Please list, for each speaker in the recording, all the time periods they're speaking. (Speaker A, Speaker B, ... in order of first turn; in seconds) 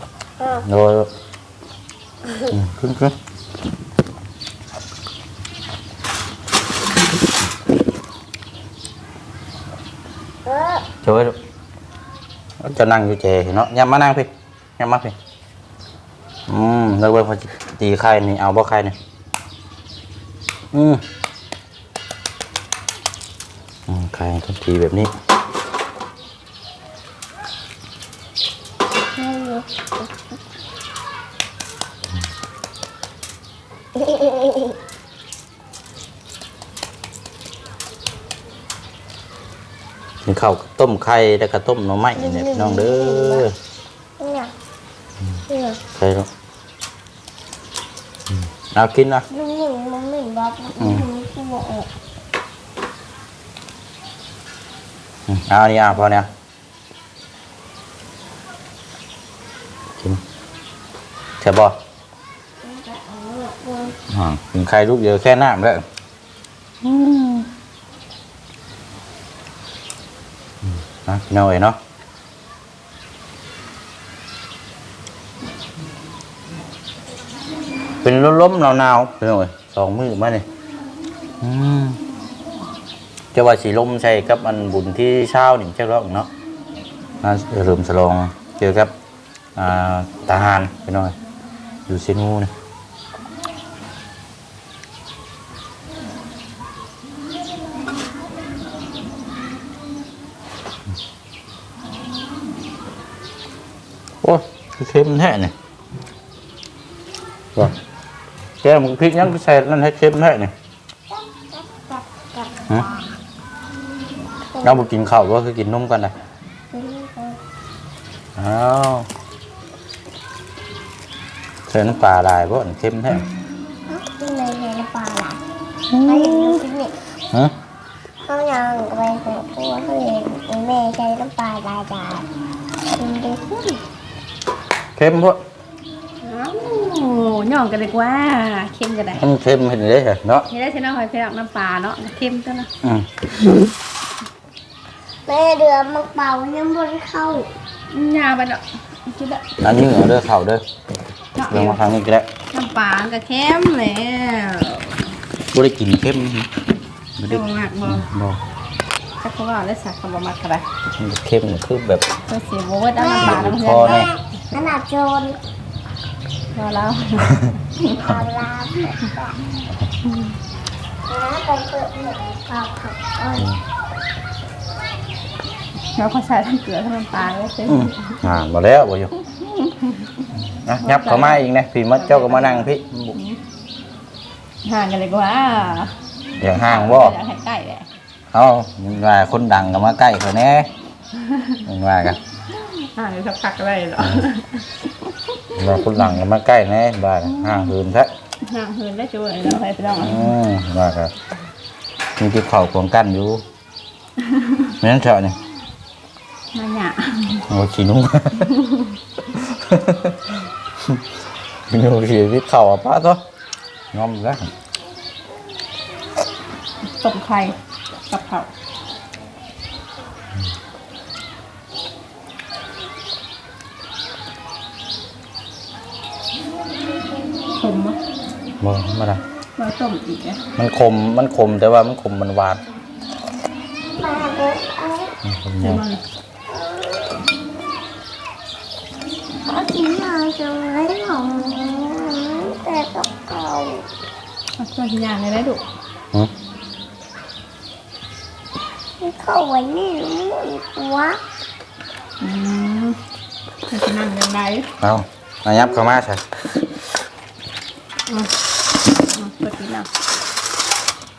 Speaker A: 0.4-0.6, 10.4-10.9, 29.2-30.2, 34.0-34.8, 42.2-43.5, 44.2-44.5, 45.5-45.8, 49.3-51.9, 62.6-64.0, 111.1-113.0, 114.5-114.9, 116.7-117.4, 123.9-125.4, 126.0-127.0, 128.3-132.3, 132.9-133.8, 145.3-147.5, 163.0-165.4, 167.9-169.4, 171.1-173.5, 227.0-227.5, 233.9-235.2, 236.5-237.2, 239.5-243.9, 249.0-251.2
Speaker B: 0.6-1.1, 2.5-3.1, 11.0-11.4, 12.6-15.2, 16.5-19.0, 20.7-21.0, 23.9-25.1, 40.2-43.5, 45.9-46.3, 48.7-49.2, 50.8-51.1, 55.3-56.3, 61.4-61.8, 64.1-65.9, 66.8-67.5, 71.0-71.8, 78.0-80.5, 81.4-82.0, 83.3-86.3, 87.2-88.9, 89.6-91.2, 91.9-92.5, 104.2-105.5, 108.6-110.5, 114.6-116.2, 118.4-119.1, 121.7-123.3, 125.9-126.6, 135.0-135.4, 139.2-140.5, 142.8-143.1, 149.6-150.6, 151.5-152.3, 155.5-156.5, 157.2-158.4, 161.0-162.1, 163.2-164.1, 177.7-179.1, 180.6-183.2, 186.4-187.2, 188.3-190.7, 191.7-192.2, 194.0-194.3, 195.6-198.1, 200.0-201.1, 202.2-203.4, 204.8-205.4, 207.5-208.6, 209.3-211.1, 211.7-213.2, 213.9-214.5, 228.6-229.2, 230.6-232.6, 235.2-235.8, 254.8-256.4
Speaker C: 136.2-139.2, 140.5-142.7, 147.9-149.4, 151.4-151.8, 152.5-155.1, 157.3-158.1, 159.2-160.7, 162.3-164.1, 166.5-168.1, 175.9-178.2, 179.2-180.3, 180.8-181.4, 182.0-183.4, 184.6-185.9, 186.5-187.9, 191.2-191.6, 192.5-196.0, 197.4-197.6, 198.4-200.3, 204.2-204.8, 206.5-207.5, 208.5-209.0, 217.0-217.6, 218.1-218.5, 227.6-228.0, 229.6-230.4, 235.6-236.0, 244.6-245.6, 252.2-253.0, 253.7-254.7, 258.1-258.3, 258.9-259.9